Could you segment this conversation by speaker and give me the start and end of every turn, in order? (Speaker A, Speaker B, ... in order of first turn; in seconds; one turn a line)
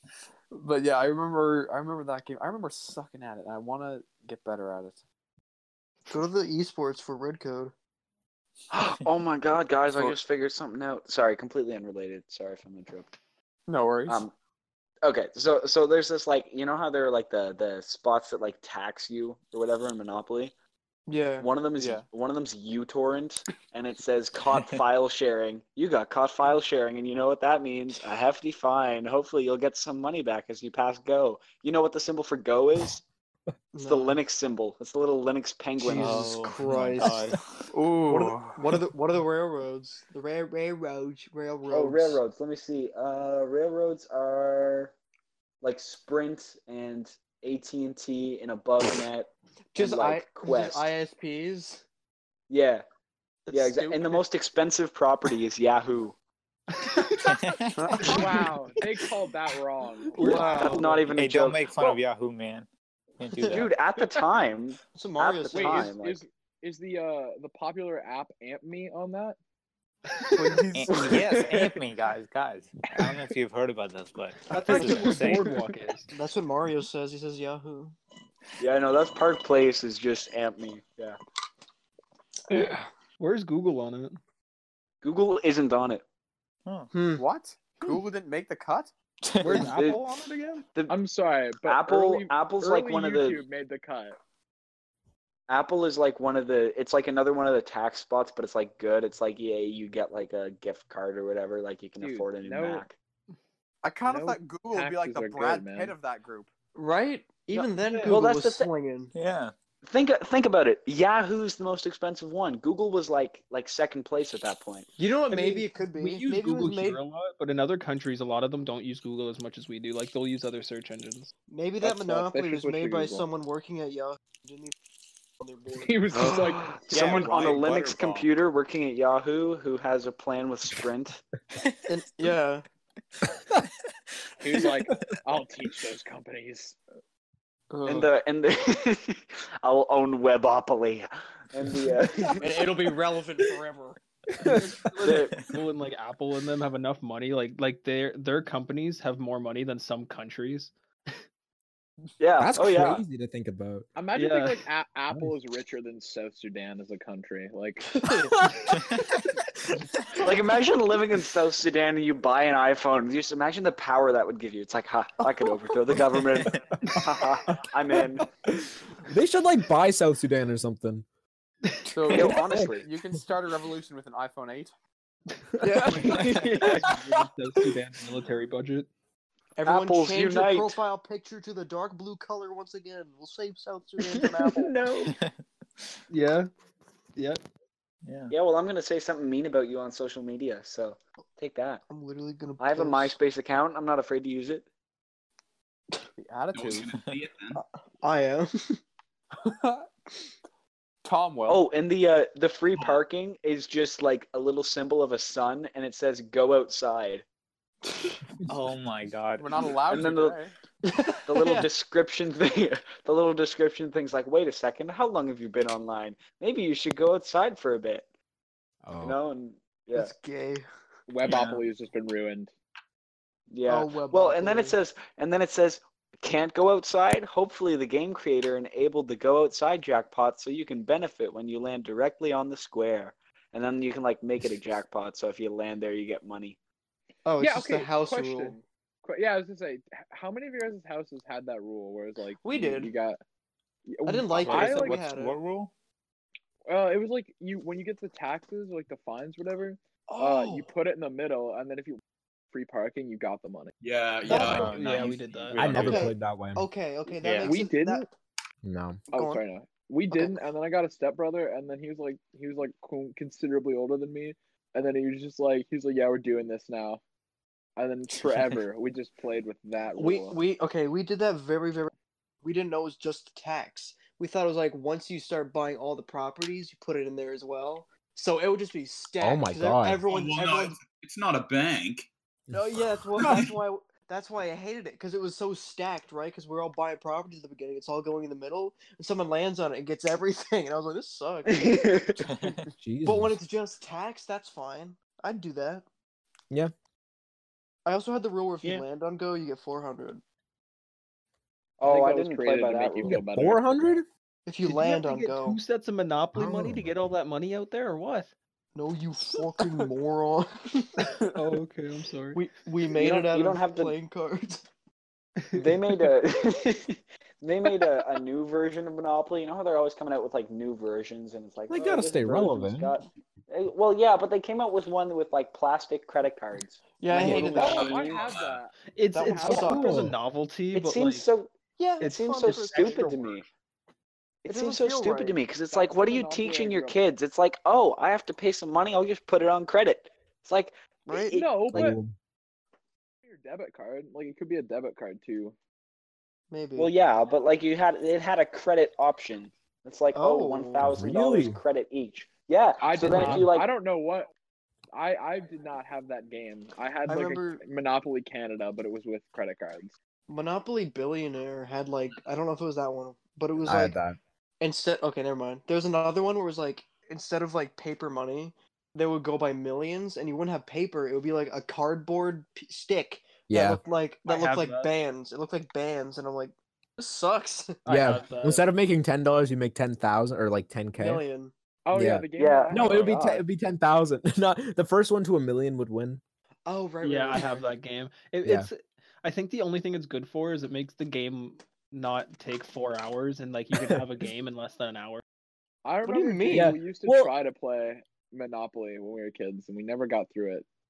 Speaker A: 0.5-5.0
Speaker B: 6.1-7.7
Speaker C: 8.7-13.1
Speaker A: 13.7-14.3
Speaker C: 14.1-14.3
Speaker C: 15.0-20.5
Speaker B: 21.1-21.5
Speaker C: 21.4-33.0
Speaker A: 21.8-22.1
Speaker B: 33.7-34.2
Speaker C: 33.9-36.3
Speaker B: 35.8-37.3
Speaker D: 35.9-37.7
Speaker A: 37.7-38.6
Speaker B: 38.1-42.2
Speaker C: 41.7-45.0
Speaker C: 45.6-50.9
Speaker B: 49.7-51.8
Speaker C: 52.5-52.9
Speaker C: 53.5-56.2
Speaker E: 57.0-57.3
Speaker D: 57.2-58.1
Speaker B: 57.8-58.3
Speaker F: 58.0-60.4
Speaker E: 60.1-61.0
Speaker B: 60.2-60.8
Speaker C: 60.2-62.0
Speaker D: 61.1-62.7
Speaker D: 63.2-63.7
Speaker C: 63.4-66.2
Speaker B: 64.9-66.0
Speaker F: 65.5-69.4
Speaker E: 70.3-70.6
Speaker D: 70.5-75.6
Speaker C: 71.0-71.7
Speaker E: 74.5-76.1
Speaker B: 74.7-75.5
Speaker B: 76.1-78.0
Speaker C: 78.6-81.2
Speaker E: 82.5-84.2
Speaker C: 85.0-86.0
Speaker D: 86.7-86.9
Speaker B: 86.9-87.2
Speaker A: 87.2-88.9
Speaker D: 89.2-89.7
Speaker E: 89.4-90.7
Speaker C: 89.5-90.0
Speaker F: 90.9-94.2
Speaker C: 91.6-93.4
Speaker C: 95.5-103.0
Speaker F: 102.0-102.9
Speaker A: 103.8-106.5
Speaker F: 104.0-105.9
Speaker B: 106.8-109.1
Speaker C: 107.5-108.7
Speaker E: 107.8-108.2
Speaker D: 109.1-109.5
Speaker C: 109.8-114.9
Speaker B: 115.0-117.0
Speaker E: 115.3-121.3
Speaker B: 121.5-124.7
Speaker F: 121.8-123.3
Speaker B: 125.4-126.4
Speaker F: 125.8-126.8
Speaker C: 126.1-131.2
Speaker D: 126.9-128.2
Speaker G: 127.0-127.6
Speaker B: 131.9-132.6
Speaker F: 134.4-136.8
Speaker B: 137.7-138.1
Speaker C: 137.9-142.5
Speaker A: 142.4-143.9
Speaker B: 142.4-144.0
Speaker E: 144.4-150.7
Speaker C: 145.0-145.3
Speaker C: 152.2-153.0
Speaker H: 152.4-153.9
Speaker F: 154.0-158.0
Speaker E: 154.1-154.6
Speaker B: 158.0-158.3
Speaker C: 160.2-168.3
Speaker H: 169.1-171.1
Speaker A: 171.9-174.7
Speaker C: 172.1-172.9
Speaker B: 175.6-176.8
Speaker E: 175.7-178.9
Speaker C: 176.1-176.6
Speaker B: 179.6-184.7
Speaker C: 179.6-180.8
Speaker C: 184.5-185.1
Speaker D: 185.1-185.4
Speaker E: 186.1-186.5
Speaker E: 187.2-187.4
Speaker D: 188.1-188.3
Speaker C: 188.3-191.8
Speaker B: 191.9-193.2
Speaker C: 192.6-194.7
Speaker A: 196.2-196.9
Speaker G: 196.5-197.6
Speaker B: 197.6-198.8
Speaker A: 199.4-199.8
Speaker A: 201.0-201.6
Speaker C: 201.5-207.2
Speaker D: 208.4-210.1
Speaker A: 209.4-210.5
Speaker C: 209.9-210.4
Speaker B: 210.8-211.7
Speaker C: 211.3-218.1
Speaker H: 218.8-219.2
Speaker C: 219.0-220.1
Speaker B: 219.9-220.7
Speaker F: 221.1-222.5
Speaker D: 221.2-221.6
Speaker C: 223.5-236.6
Speaker B: 223.7-224.8
Speaker B: 237.3-238.6
Speaker F: 237.4-243.2
Speaker B: 242.4-242.9
Speaker F: 243.9-245.0
Speaker B: 244.1-245.4
Speaker D: 244.3-245.7
Speaker F: 246.7-252.0
Speaker B: 250.1-250.7
Speaker F: 252.5-253.7
Speaker G: 253.8-255.9
Speaker E: 254.3-256.1
Speaker B: 254.3-254.7
Speaker D: 254.3-256.0
Speaker H: 255.6-256.6
Speaker B: 255.8-258.1
Speaker D: 257.2-257.6
Speaker F: 257.4-258.1
Speaker H: 258.6-259.0
Speaker F: 259.1-267.0
Speaker B: 259.1-259.4
Speaker B: 260.1-260.4
Speaker F: 267.8-270.4
Speaker D: 268.1-268.6
Speaker B: 270.0-271.9
Speaker B: 272.4-280.8
Speaker H: 279.2-280.0
Speaker G: 280.1-282.1
Speaker H: 282.5-283.3
Speaker B: 282.5-295.8
Speaker G: 283.2-283.6
Speaker C: 291.5-292.2
Speaker D: 292.3-292.7
Speaker H: 292.7-293.4
Speaker B: 297.9-300.2
Speaker C: 301.8-303.2
Speaker F: 301.8-303.7
Speaker H: 303.0-304.1
Speaker B: 304.5-305.6
Speaker E: 304.6-308.3
Speaker H: 306.3-306.9
Speaker B: 308.8-311.1
Speaker E: 311.3-312.5
Speaker B: 312.3-314.7
Speaker C: 313.0-313.9
Speaker E: 315.5-315.8
Speaker C: 315.6-328.2
Speaker H: 321.7-322.9
Speaker B: 327.0-328.0
Speaker H: 327.1-327.6
Speaker F: 327.2-329.5
Speaker G: 327.7-328.6
Speaker E: 328.9-331.3
Speaker B: 329.1-330.0
Speaker H: 329.4-330.2
Speaker C: 330.7-333.5
Speaker B: 331.8-333.2
Speaker E: 332.0-333.1
Speaker C: 334.4-341.5
Speaker B: 334.5-335.4
Speaker F: 335.7-337.0
Speaker B: 341.1-341.4
Speaker F: 341.3-342.0
Speaker H: 341.7-342.1
Speaker F: 343.2-345.6
Speaker B: 346.5-346.9
Speaker C: 346.8-353.7
Speaker B: 350.1-350.9
Speaker H: 350.8-351.6
Speaker F: 352.8-354.3
Speaker H: 353.1-353.5
Speaker F: 354.9-359.9
Speaker B: 357.1-357.6
Speaker B: 360.3-364.0
Speaker H: 363.6-364.2
Speaker B: 364.6-377.8
Speaker H: 373.5-373.8
Speaker E: 374.2-374.9
Speaker E: 377.9-378.7
Speaker H: 377.9-381.2
Speaker B: 381.0-381.5
Speaker F: 381.8-383.4
Speaker H: 381.9-386.2
Speaker C: 382.4-383.3
Speaker B: 386.7-387.7
Speaker E: 387.0-395.2
Speaker H: 388.4-388.7
Speaker F: 395.8-400.6
Speaker B: 396.1-396.8
Speaker H: 396.5-397.3